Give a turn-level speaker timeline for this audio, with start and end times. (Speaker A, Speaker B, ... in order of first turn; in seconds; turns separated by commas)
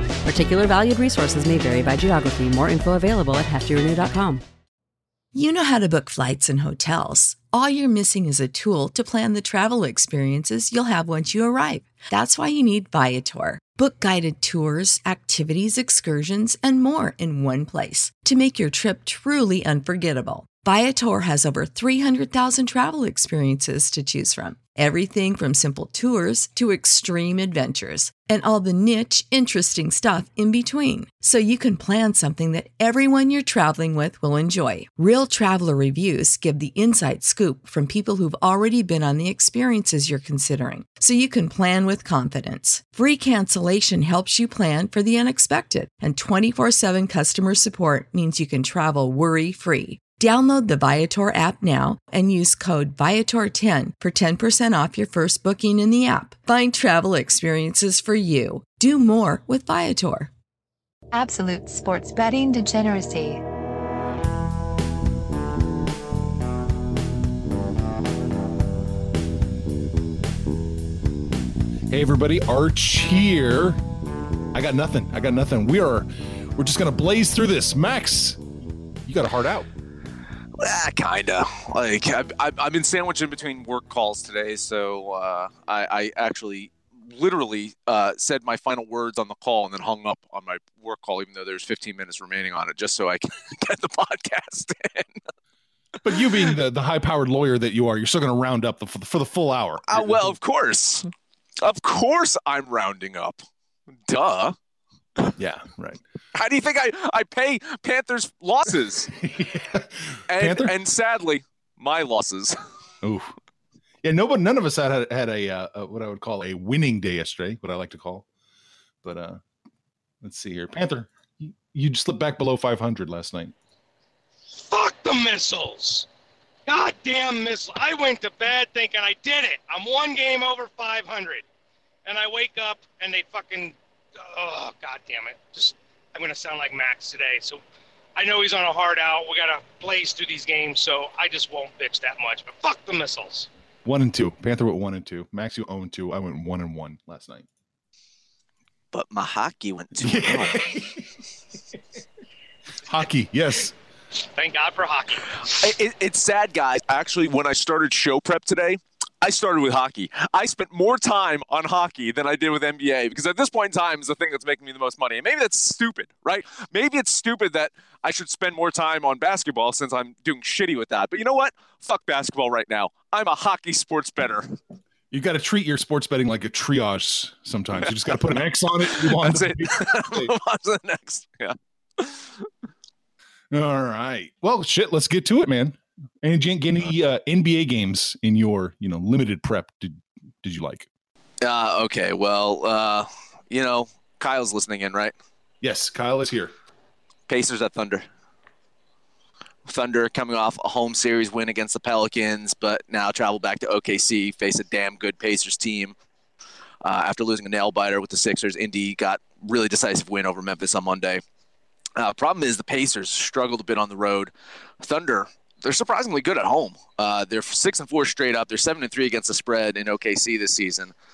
Speaker A: 0.2-4.4, Speaker B: 5.3-60.3, Speaker C: 61.1-63.4, Speaker D: 71.9-73.8, Speaker D: 74.5-78.4, Speaker D: 79.0-79.7, Speaker E: 80.6-95.2, Speaker D: 96.0-100.4, Speaker E: 99.9-101.1, Speaker E: 101.6-103.4, Speaker E: 104.1-104.5, Speaker D: 105.4-106.0, Speaker E: 106.3-109.1, Speaker D: 109.1-110.7, Speaker E: 110.3-112.5, Speaker D: 113.0-113.3, Speaker D: 114.0-118.2, Speaker D: 119.0-119.4, Speaker D: 120.2-123.5, Speaker F: 124.6-126.1, Speaker F: 126.7-131.4, Speaker F: 132.1-137.6, Speaker F: 138.2-143.5, Speaker D: 143.8-147.4, Speaker E: 148.9-150.6, Speaker D: 150.0-151.1, Speaker D: 152.8-153.7, Speaker F: 154.2-155.2, Speaker E: 155.5-174.5, Speaker D: 175.1-180.3, Speaker E: 177.8-178.2, Speaker E: 178.9-182.4, Speaker D: 183.5-190.9, Speaker E: 191.4-195.1, Speaker D: 195.6-196.5, Speaker E: 197.3-198.0, Speaker E: 199.7-205.9, Speaker E: 206.8-211.2, Speaker E: 212.0-220.9